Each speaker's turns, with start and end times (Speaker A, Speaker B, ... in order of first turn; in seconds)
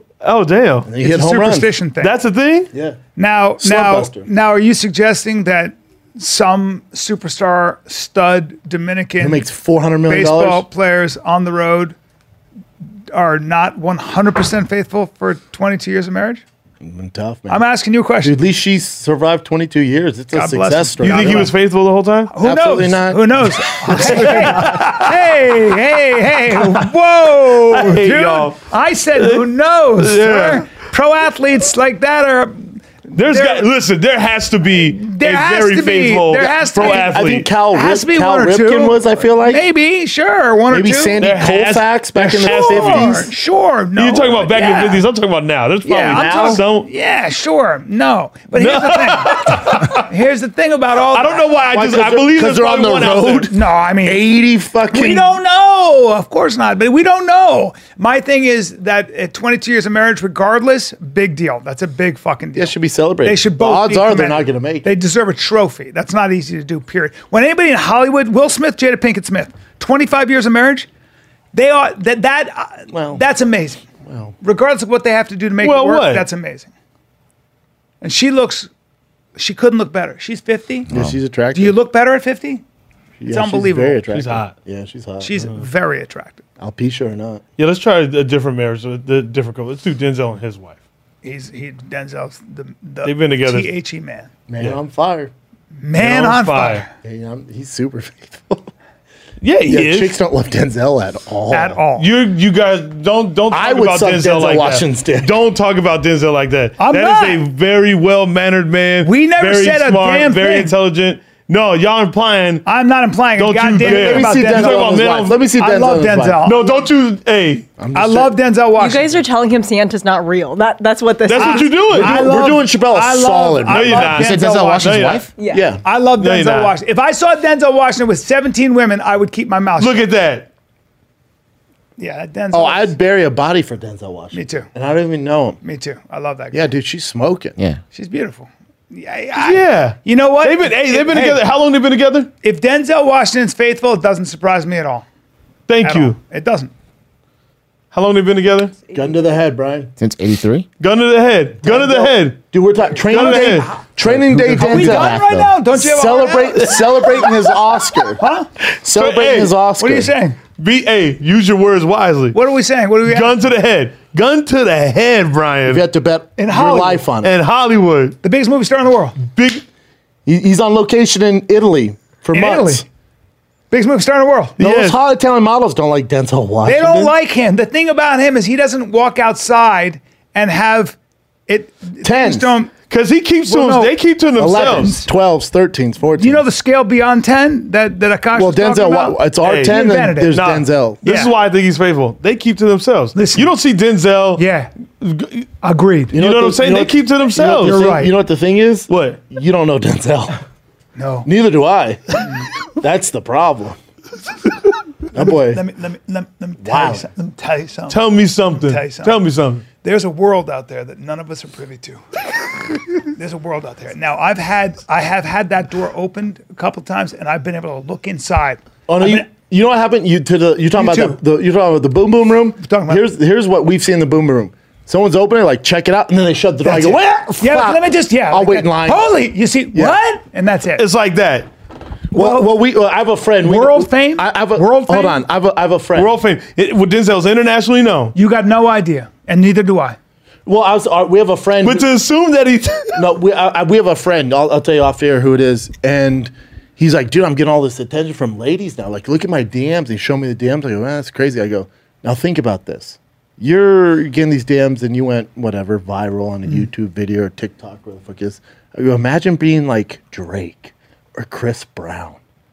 Speaker A: 0.2-0.9, 2.0-2.7, 21.0-22.3, 23.9-25.2, 27.7-28.6, 29.2-29.5, 30.0-30.7, 33.1-37.5, 41.2-43.3, 44.0-46.9, 48.5-50.1, 51.1-53.5, 75.6-76.3, 84.1-84.5, 87.6-90.8, 93.0-93.7, 96.0-96.8, 99.4-100.2, 102.0-112.7, 113.4-115.4, 116.5-117.7, 121.2-122.2, 123.7-125.2, 126.2-126.7, 129.8-130.5, 139.4-142.3, 145.7-146.2, 147.9-148.8, 150.8-152.4, 153.1-153.7, 156.8-157.3, 158.7-159.5, 160.6-162.4, 163.1-165.8, 167.2-168.2, 169.2-169.6, 174.6-175.0, 182.9-184.9, 189.4-194.4, 195.0-195.5, 196.1-197.9, 198.9-199.2, 207.9-209.7, 230.8-231.5, 235.9-238.1, 241.6-243.0
Speaker B: 0.8-1.7, 2.7-3.0, 3.6-4.3, 9.2-10.7, 16.8-17.6, 18.2-21.5, 22.4-24.8, 36.8-39.6, 40.7-43.3, 45.9-46.6, 51.7-55.4, 62.5-64.9, 72.9-73.2, 74.0-74.3, 80.9-81.8, 83.2-85.3, 86.6-87.4, 94.5-95.3, 97.0-98.7, 99.7-101.8, 103.5-105.4, 113.8-116.5, 117.8-118.3, 121.9-124.2, 125.5-125.8, 132.5-135.6, 136.5-137.6, 148.9-149.9, 151.6-155.2, 155.7-158.2, 158.8-160.1, 165.7-167.3, 170.3-172.8, 174.6-177.1, 182.0-182.5, 184.4-186.4, 188.3-191.0, 196.1-200.4, 201.2-203.8, 205.1-205.6, 206.6-207.0, 218.9-229.1, 232.1-236.1, 240.5-241.9, 242.9-262.2
Speaker C: 1.0-2.1, 3.2-9.5, 10.1-12.0, 13.1-16.4, 17.5-18.4, 20.3-21.5, 22.3-33.7, 34.9-37.2, 37.7-41.2, 42.2-45.0, 45.9-51.5, 53.5-54.2, 54.9-70.9, 71.5-73.8, 74.4-76.7, 78.0-78.7, 79.4-80.9, 81.5-82.6, 83.3-84.0, 85.2-86.4, 91.2-94.3, 95.8-96.9, 101.5-102.1, 106.8-107.4, 109.0-110.7, 112.7-115.0, 115.5-116.7, 118.0-119.2, 121.4-125.1, 125.8-130.1, 132.0-132.9, 134.3-134.7, 135.6-136.7, 137.9-141.4, 142.4-145.1, 145.8-146.7, 153.1-153.8, 154.6-156.8, 158.2-158.5, 159.8-160.4, 162.3-163.4, 166.4-167.1, 168.2-169.2, 172.3-172.8, 173.7-174.6, 176.7-181.0, 181.5-182.7, 183.5-183.9, 184.6-185.1, 186.2-190.4, 191.0-191.3, 193.2-193.5, 194.4-194.7, 195.6-196.2, 197.4-198.1, 201.0-201.3, 205.2-209.2, 209.8-212.0, 213.0-219.3, 220.8-221.2, 222.6-223.1, 226.6-230.8, 232.1-232.5, 233.4-235.2, 238.2-240.0
Speaker D: 80.9-81.2, 124.2-125.3, 150.0-150.7, 154.0-155.6
Speaker E: 118.8-121.8, 125.4-125.7